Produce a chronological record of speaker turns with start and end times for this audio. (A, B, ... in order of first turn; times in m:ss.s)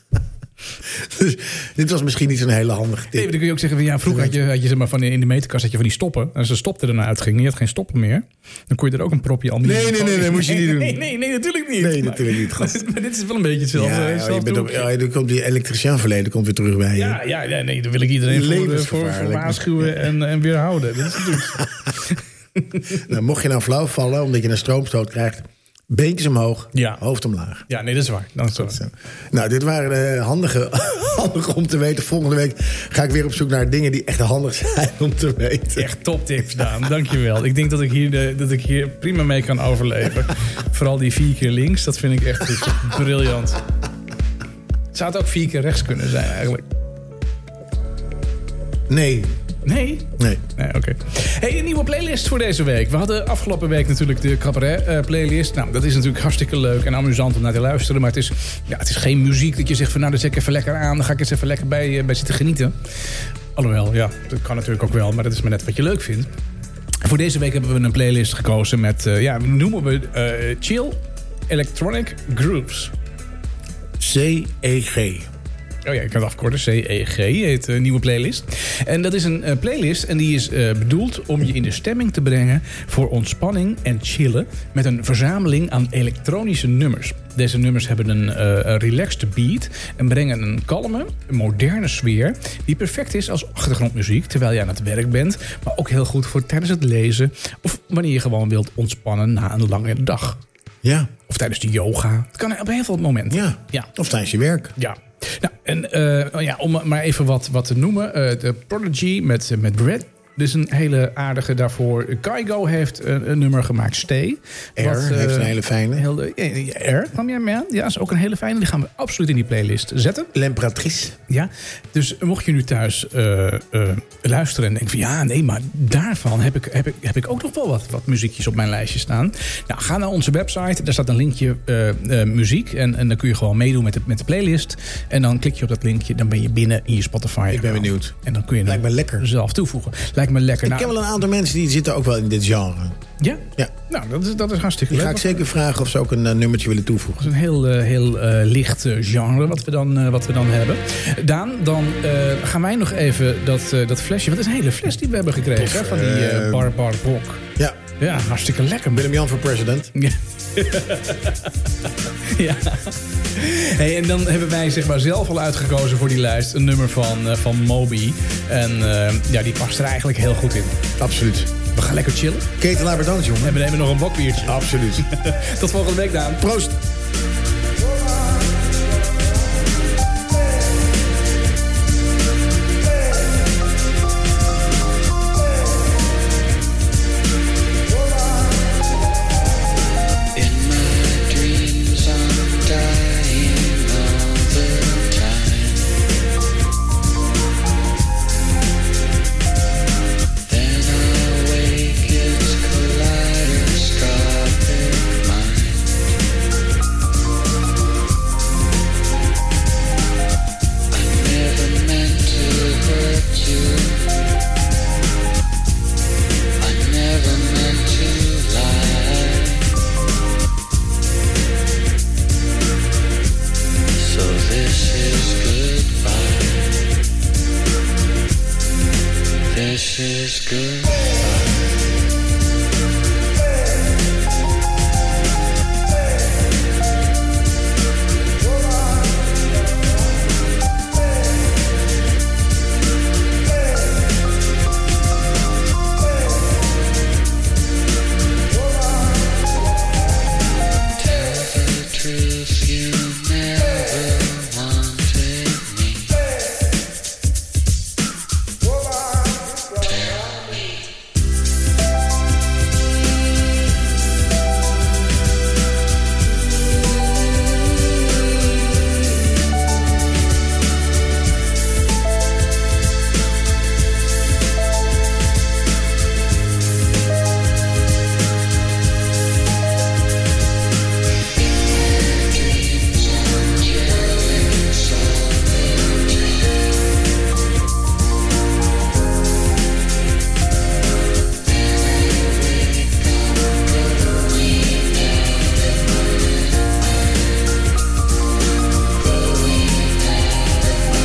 0:00.8-0:03.3 A
0:03.1-0:14.9 B
0:04.0-0:04.4 A
0:09.6-0:11.0 A
0:11.8-0:12.8 A
0:13.7-0:17.2 A
0:16.9-0:23.0 B
0:18.3-0:19.9 A
0:22.9-0:27.7 A
0:26.7-0:27.0 B
0:27.7-0:28.8 B
0:28.6-0:35.9 A
0:35.8-0:43.6 B
0:44.9-0:46.7 B
0:48.9-0:49.4 A
0:49.6-1:02.7 B
0:50.2-0:50.4 A
1:03.5-1:06.3 B
1:07.0-1:11.0 B
1:11.5-1:12.9 B
1:14.0-1:15.3 A
1:15.8-1:40.4 B
1:40.8-1:41.1 A
1:41.3-1:43.9 B
1:43.3-1:44.7 A
1:44.8-2:00.3 B
1:54.8-1:56.0 A
2:00.3-2:01.2 A
2:01.3-2:20.9 B
2:17.5-2:19.3 A
2:20.6-2:23.0 A
2:23.2-2:25.4 B
2:24.9-2:27.3 A
2:27.2-2:37.4 B
2:35.6-2:36.7 A
2:38.0-2:39.1 B
2:38.9-2:39.9 A
2:39.9-2:41.5 B
2:42.1-2:50.8 B
2:51.0-2:51.5 A
2:51.7-2:52.5 B
2:52.6-2:53.6 A
2:53.4-2:56.5 B
2:54.4-2:55.1 A
2:56.4-2:56.8 A
3:10.3-3:15.9 C
3:20.5-3:26.0 C
3:30.9-3:34.1 C
3:36.6-3:39.7 C
3:44.0-3:46.7 C
3:49.5-3:51.6 C
4:11.0-4:16.1 C
4:19.6-4:20.8 C
4:42.1-4:46.5 C
4:51.7-4:55.9 C
4:59.1-5:00.8 C